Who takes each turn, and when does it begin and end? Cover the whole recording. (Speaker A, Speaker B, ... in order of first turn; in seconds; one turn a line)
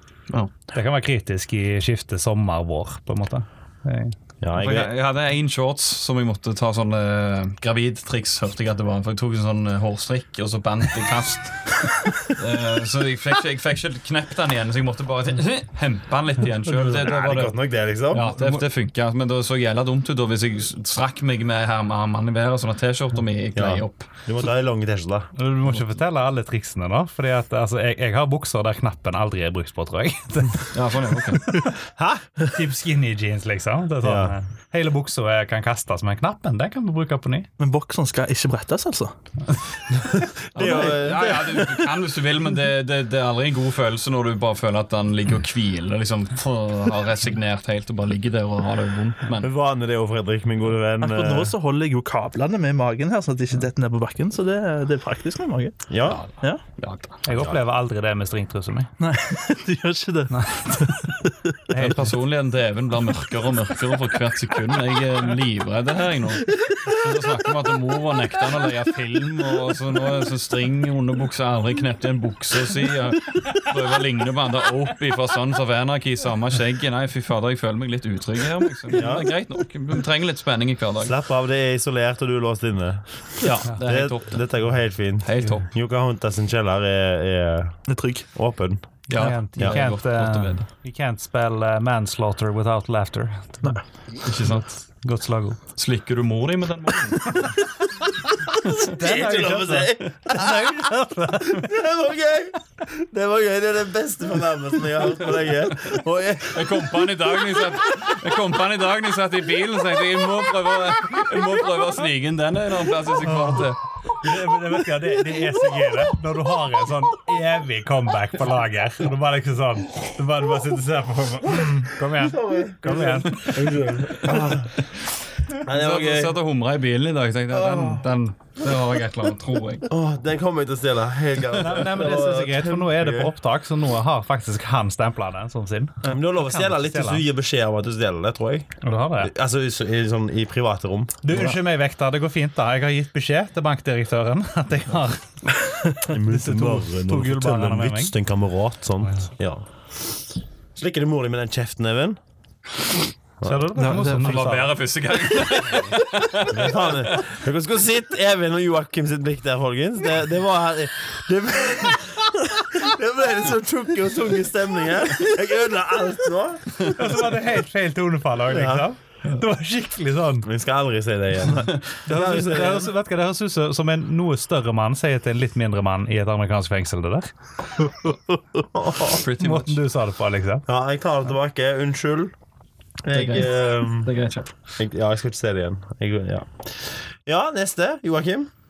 Speaker A: 0.7-4.2
Speaker B: 4.4-4.9
Speaker C: 4.6-17.6
Speaker B: 16.7-18.3
Speaker C: 18.1-24.1
Speaker A: 18.4-18.6
Speaker B: 23.6-25.3
Speaker A: 25.4-30.7
Speaker C: 30.7-31.6
Speaker B: 31.7-32.2
Speaker A: 32.5-37.5
Speaker B: 34.0-34.3
Speaker D: 37.6-39.1
Speaker B: 40.0-41.7
Speaker C: 40.5-49.5
Speaker D: 40.6-41.0
Speaker B: 49.4-51.5
Speaker D: 51.0-55.8
Speaker B: 55.9-56.2
Speaker C: 56.1-57.2
Speaker A: 57.2-58.9
Speaker D: 59.0-61.5
Speaker A: 60.3-61.1
Speaker A: 61.7-62.1
Speaker C: 61.8-81.1
Speaker B: 78.9-79.3
Speaker B: 81.0-87.8
Speaker C: 83.4-84.4
Speaker C: 85.2-85.7
Speaker D: 87.9-88.3
Speaker B: 88.3-89.1
Speaker C: 89.1-90.7
Speaker A: 89.1-93.8
Speaker C: 94.2-94.7
Speaker A: 94.5-95.6
Speaker C: 95.8-97.4
Speaker A: 98.7-101.7
Speaker B: 98.8-106.8
Speaker C: 106.5-113.8
Speaker A: 113.2-123.7
Speaker B: 122.1-124.8
Speaker B: 125.6-126.4
Speaker C: 125.7-129.9
Speaker B: 127.5-128.1
Speaker B: 129.9-133.3
Speaker A: 131.6-137.2
Speaker B: 136.0-141.6
Speaker A: 138.8-139.3
Speaker A: 141.2-148.1
Speaker B: 146.0-149.6
Speaker B: 150.8-152.2
Speaker B: 153.4-153.7
Speaker A: 153.4-154.8
Speaker D: 153.8-154.3
Speaker C: 153.8-157.2
Speaker B: 156.5-167.1
Speaker A: 166.9-170.5
Speaker B: 168.5-168.8
Speaker B: 170.4-172.9
Speaker A: 172.1-177.3
Speaker B: 178.8-179.2
Speaker C: 179.0-179.8
Speaker A: 179.4-180.7
Speaker B: 180.7-182.3
Speaker B: 183.0-184.1
Speaker C: 183.1-184.5
Speaker B: 184.8-188.5